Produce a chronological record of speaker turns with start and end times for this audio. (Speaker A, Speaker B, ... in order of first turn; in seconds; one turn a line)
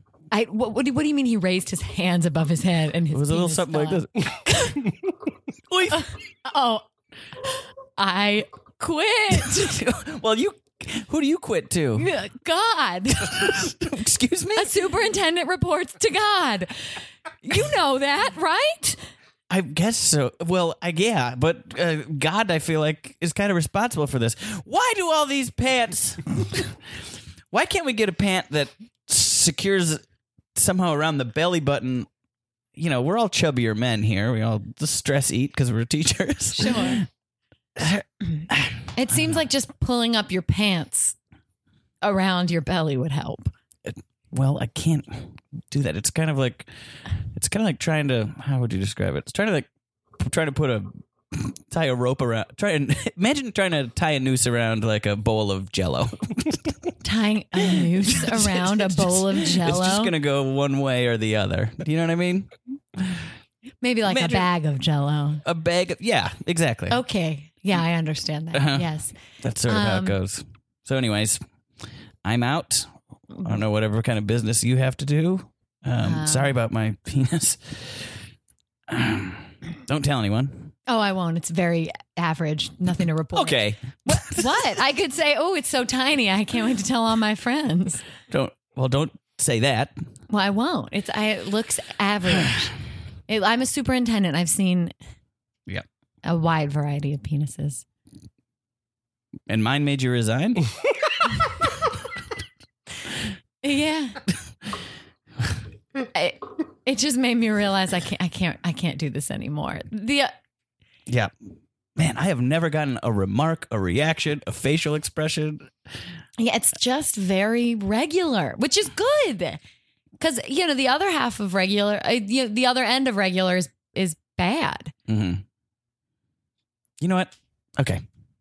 Speaker A: 0.3-4.8
Speaker B: 3.1-4.4
Speaker B: 5.7-6.1
Speaker A: 5.9-6.9
Speaker A: 8.0-9.8
Speaker B: 9.4-12.1
Speaker A: 12.0-13.7
Speaker B: 13.3-14.7
Speaker A: 14.6-16.8
Speaker A: 17.4-19.0
Speaker B: 19.5-26.8
Speaker B: 27.5-30.0
Speaker B: 30.6-32.1
Speaker B: 32.8-37.1
Speaker A: 36.6-37.0
Speaker B: 37.8-38.8
Speaker A: 39.0-41.2
Speaker A: 42.0-43.5
Speaker B: 43.9-46.7
Speaker B: 47.3-49.7
Speaker B: 50.2-56.7
Speaker A: 57.0-60.1
Speaker B: 57.8-63.3
Speaker A: 63.8-65.4
Speaker B: 64.1-64.5
Speaker B: 65.5-67.0
Speaker A: 66.9-70.2
Speaker B: 68.5-71.4
Speaker B: 72.2-78.2
Speaker A: 76.0-76.5
Speaker B: 78.9-80.7
Speaker A: 80.9-88.0
Speaker B: 83.3-84.7
Speaker B: 88.3-90.0
Speaker A: 90.3-92.7
Speaker A: 93.3-94.9
Speaker A: 96.2-97.8
Speaker B: 99.5-100.7
Speaker A: 103.6-104.2
Speaker A: 106.1-110.3
Speaker B: 112.0-115.7
Speaker A: 116.4-119.6
Speaker A: 120.2-124.9
Speaker B: 125.1-125.4
Speaker B: 127.0-128.0